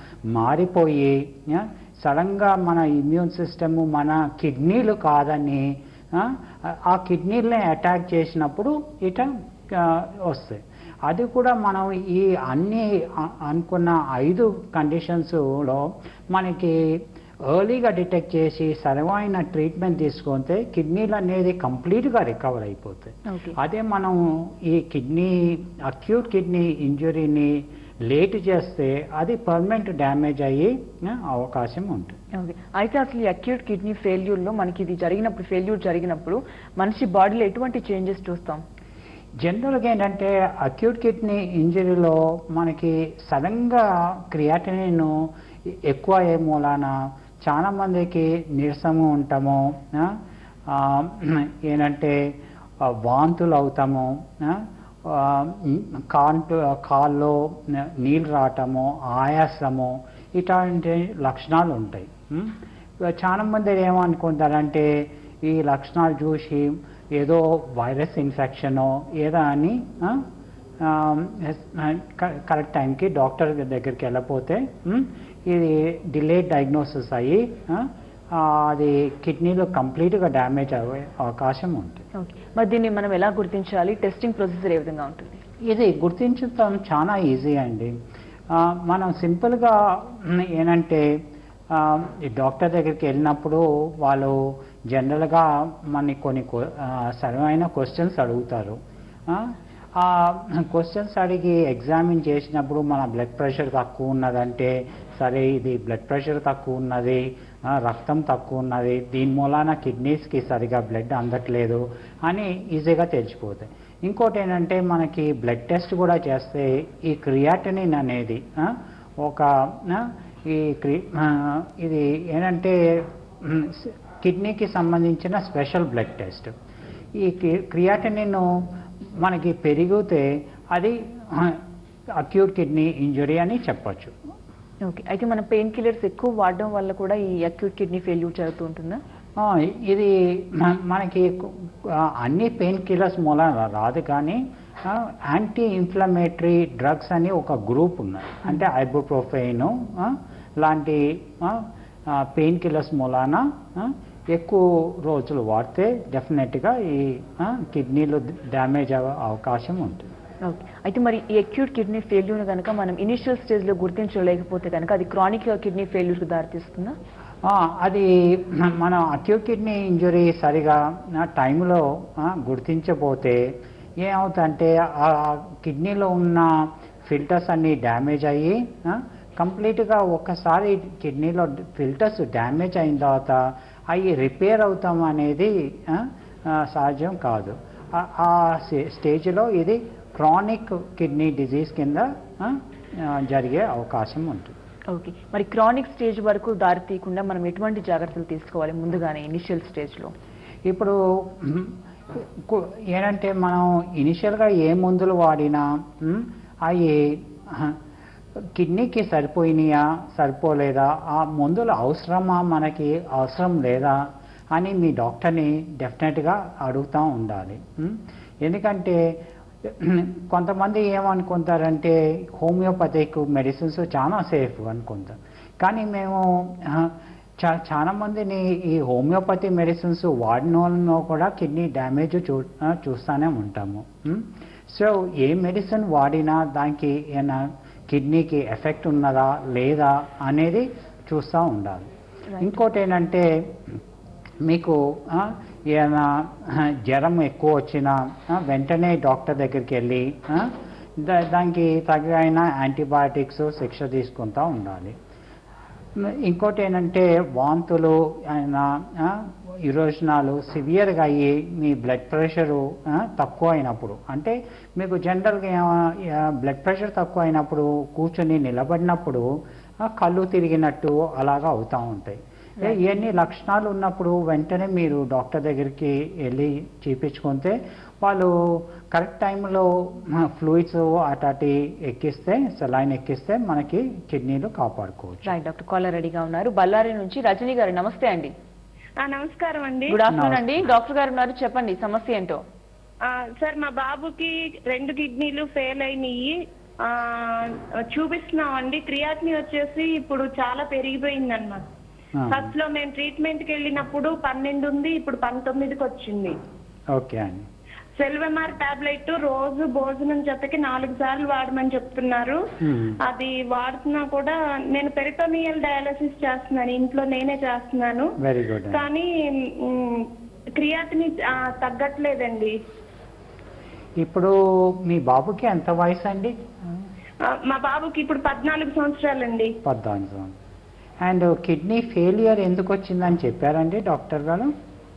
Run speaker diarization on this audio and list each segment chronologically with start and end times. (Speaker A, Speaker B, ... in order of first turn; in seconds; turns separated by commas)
Speaker A: 0.3-16.8, Speaker A: 17.5-32.2, Speaker B: 23.3-23.6, Speaker B: 32.4-38.6, Speaker A: 39.4-45.2, Speaker A: 45.7-50.1, Speaker A: 50.7-52.2, Speaker A: 52.8-70.3, Speaker A: 70.8-82.0, Speaker B: 82.2-85.4, Speaker A: 85.7-87.9, Speaker A: 88.5-91.0, Speaker A: 91.7-126.5, Speaker A: 127.2-128.5, Speaker A: 129.0-131.6, Speaker A: 132.2-134.1, Speaker B: 134.8-139.0, Speaker A: 139.4-160.1, Speaker B: 160.4-166.9, Speaker A: 167.4-176.5, Speaker A: 177.1-194.6, Speaker B: 194.9-200.1, Speaker A: 200.7-207.8, Speaker A: 208.6-214.0, Speaker A: 214.5-219.0, Speaker A: 219.6-241.9, Speaker A: 242.4-243.8, Speaker A: 244.4-255.0, Speaker A: 256.0-269.3, Speaker A: 269.8-278.3, Speaker A: 278.9-285.3, Speaker B: 285.3-288.3, Speaker C: 289.0-290.0, Speaker B: 289.9-292.4, Speaker A: 290.1-290.7, Speaker C: 293.0-301.6, Speaker A: 302.2-302.5, Speaker C: 302.3-306.4, Speaker A: 306.9-307.5, Speaker C: 308.0-312.4, Speaker A: 312.6-313.0, Speaker C: 313.0-318.1, Speaker A: 318.2-318.9, Speaker C: 318.7-322.5, Speaker A: 324.0-326.9, Speaker C: 327.2-329.5, Speaker A: 329.6-330.3, Speaker A: 331.0-334.5